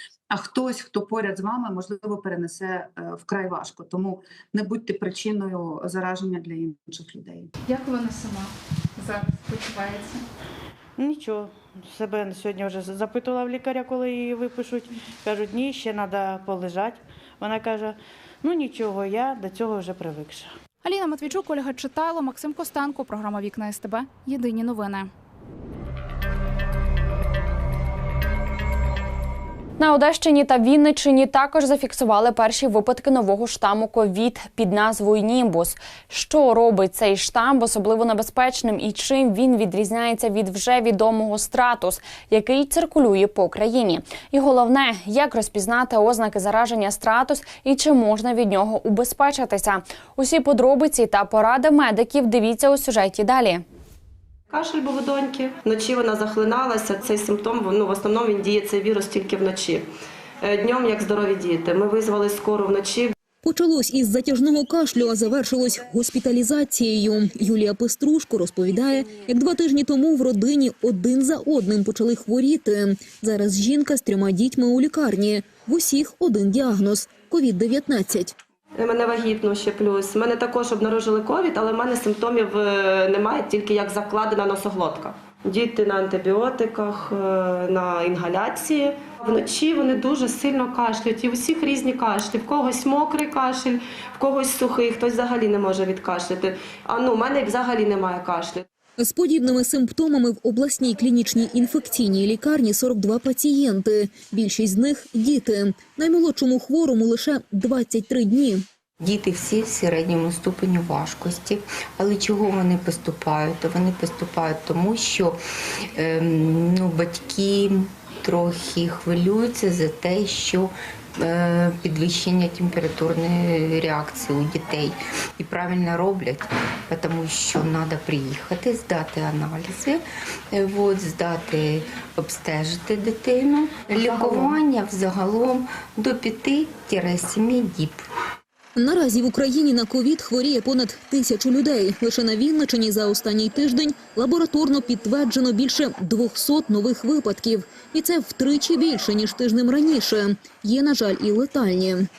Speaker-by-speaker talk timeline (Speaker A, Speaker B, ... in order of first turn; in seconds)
Speaker A: 0.3-7.5
Speaker B: 7.7-10.2, 20.8-25.1
Speaker C: 11.0-20.5
Speaker D: 29.8-53.6
Speaker E: 54.5-59.9, 60.4-63.1, 78.8-98.7
Speaker F: 63.4-78.3, 99.0-108.6, 138.8-152.1
Speaker G: 109.0-115.4, 115.9-138.0